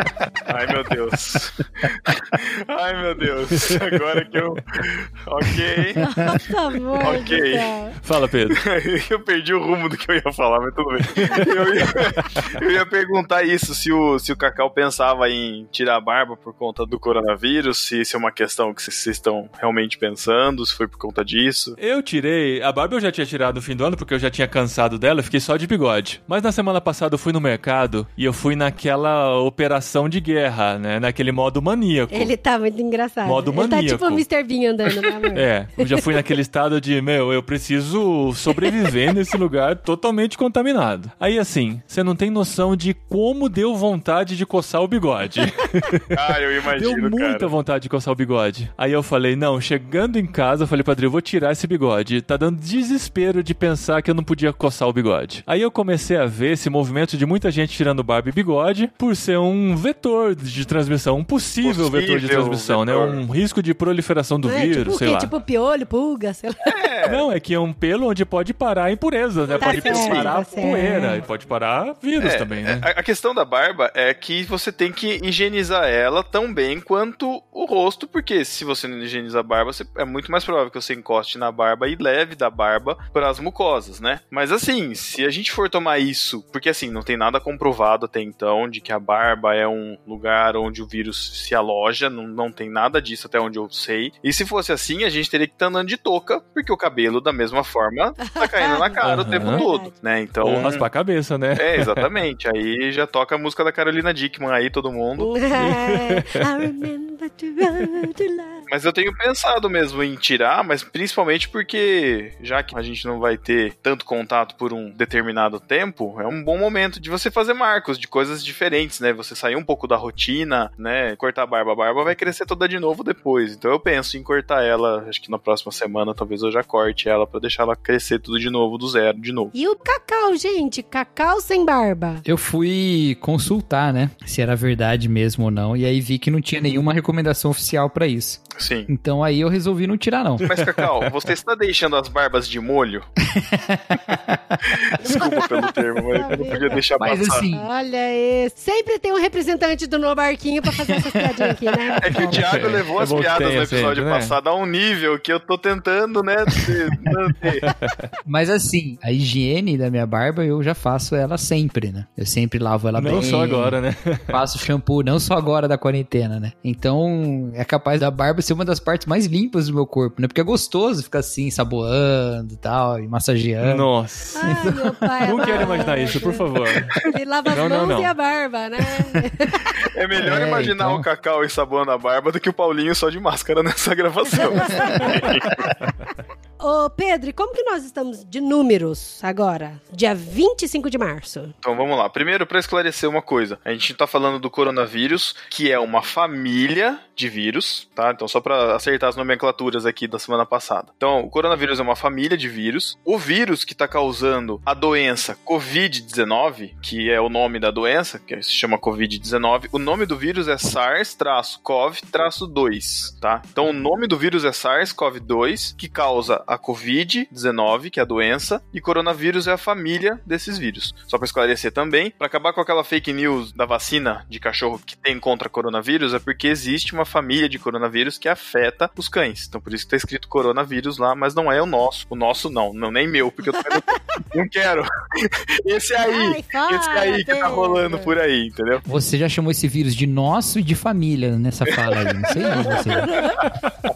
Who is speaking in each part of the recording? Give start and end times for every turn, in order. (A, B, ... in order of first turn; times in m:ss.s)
0:00.4-0:06.0 A
0:06.0-0:08.0 B
0:07.0-0:07.8 A
0:08.0-0:08.6 C
0:08.5-0:21.8 A
0:21.8-0:32.3 C
0:32.1-0:36.1 B
0:33.2-0:34.2 C
0:35.3-0:46.2 C
0:38.6-0:38.9 B
0:46.1-0:47.5 A
0:46.7-1:05.3 C
1:01.6-1:03.2 A
1:04.4-1:06.8 B
1:06.7-1:07.3 A
1:07.0-1:12.9 C
1:09.5-1:10.4 A
1:09.6-1:11.2 B
1:12.2-1:40.9 A
1:38.4-1:39.9 B
1:39.0-1:39.6 C
1:40.4-1:42.1 C
1:41.6-1:45.3 A
1:45.2-1:48.6 B
1:45.6-1:46.7 C
1:48.7-2:09.5 A
2:09.5-2:12.2 B
2:12.2-2:20.5 D
2:18.6-2:18.9 A
2:20.4-2:21.1 C
2:20.4-2:23.1 A
2:23.2-2:24.8 D
2:24.8-2:27.5 A
2:25.0-2:26.8 B
2:27.0-2:27.7 D
2:27.5-2:32.4 B
2:31.9-2:32.4 D
2:32.0-2:37.7 A
2:32.3-2:34.4 C
2:37.6-2:38.1 C
2:38.2-2:43.8 D
2:43.0-2:44.4 C
2:44.3-2:53.9 D
2:53.6-2:54.5 C
2:54.4-2:56.4 B
2:54.5-2:55.2 D
2:55.2-2:56.9 C
2:57.0-2:59.8 B
2:57.5-2:58.1 C
2:59.8-3:05.6 A
3:00.2-3:01.0 D
3:04.5-3:05.7 B
3:04.8-3:05.2 D
3:06.6-3:11.5 B
3:11.6-3:58.8 A
3:53.7-3:54.2 B
3:56.0-3:58.1 B
3:58.8-4:03.3 D
4:02.3-4:03.4 B
4:02.5-4:03.0 A